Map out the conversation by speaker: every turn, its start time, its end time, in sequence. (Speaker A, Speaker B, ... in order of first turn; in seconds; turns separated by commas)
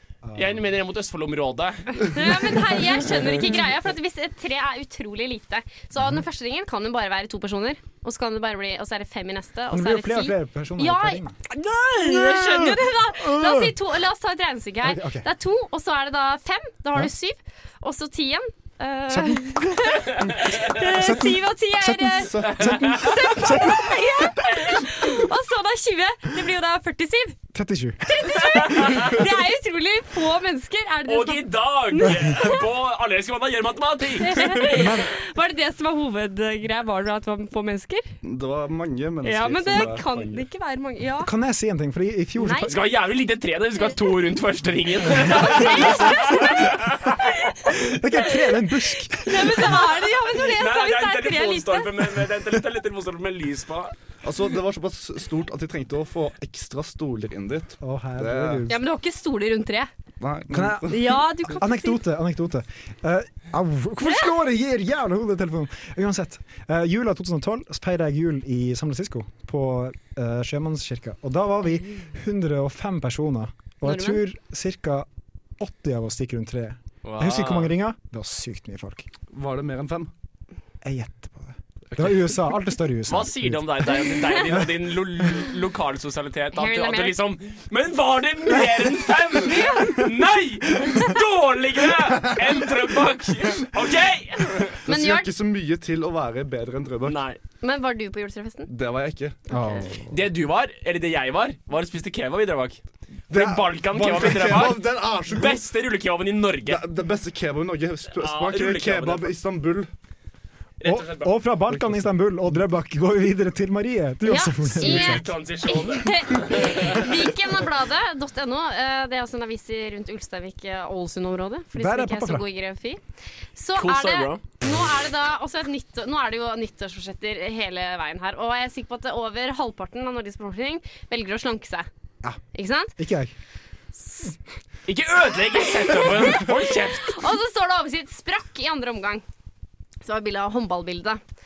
Speaker A: 0.2-0.6, Speaker B: 0.3-2.3, Speaker C: 2.0-27.4, Speaker A: 9.7-11.4, Speaker A: 12.0-13.8, Speaker A: 14.8-15.2, Speaker A: 19.1-20.2, Speaker A: 20.7-24.3, Speaker D: 22.2-23.0, Speaker A: 27.5-28.4, Speaker C: 28.1-32.6, Speaker B: 28.7-29.1, Speaker B: 31.1-34.8, Speaker C: 34.2-38.0, Speaker A: 34.7-35.1, Speaker D: 38.2-40.4, Speaker C: 39.2-41.3, Speaker A: 41.2-42.8, Speaker C: 42.4-42.7, Speaker B: 42.7-47.2, Speaker C: 45.2-46.7, Speaker A: 45.7-46.5, Speaker A: 47.7-49.8, Speaker C: 49.2-51.9, Speaker B: 50.3-53.9, Speaker D: 54.2-58.7, Speaker A: 57.8-58.8, Speaker C: 58.7-59.9, Speaker D: 60.2-61.2, Speaker A: 60.5-79.1, Speaker C: 60.9-62.0, Speaker C: 64.0-64.3, Speaker C: 73.8-74.2, Speaker B: 77.0-77.7, Speaker D: 79.3-80.1, Speaker A: 80.8-84.7, Speaker B: 83.1-94.8, Speaker C: 86.5-87.2, Speaker C: 89.4-90.0, Speaker D: 94.8-97.2, Speaker C: 94.8-95.3, Speaker B: 97.0-97.4, Speaker C: 97.6-98.7, Speaker D: 98.7-99.5, Speaker A: 99.5-100.1, Speaker C: 99.5-99.8, Speaker B: 100.1-106.8, Speaker D: 103.3-105.6, Speaker D: 106.7-109.9, Speaker B: 108.1-109.3, Speaker B: 110.8-111.3, Speaker A: 110.8-115.4, Speaker D: 111.7-112.0, Speaker C: 114.2-123.0, Speaker B: 114.8-117.1, Speaker A: 121.7-122.4, Speaker C: 123.5-131.9, Speaker B: 123.8-124.4, Speaker C: 132.5-133.0, Speaker A: 133.0-133.3, Speaker B: 134.9-137.2, Speaker C: 135.9-139.2, Speaker C: 140.0-141.2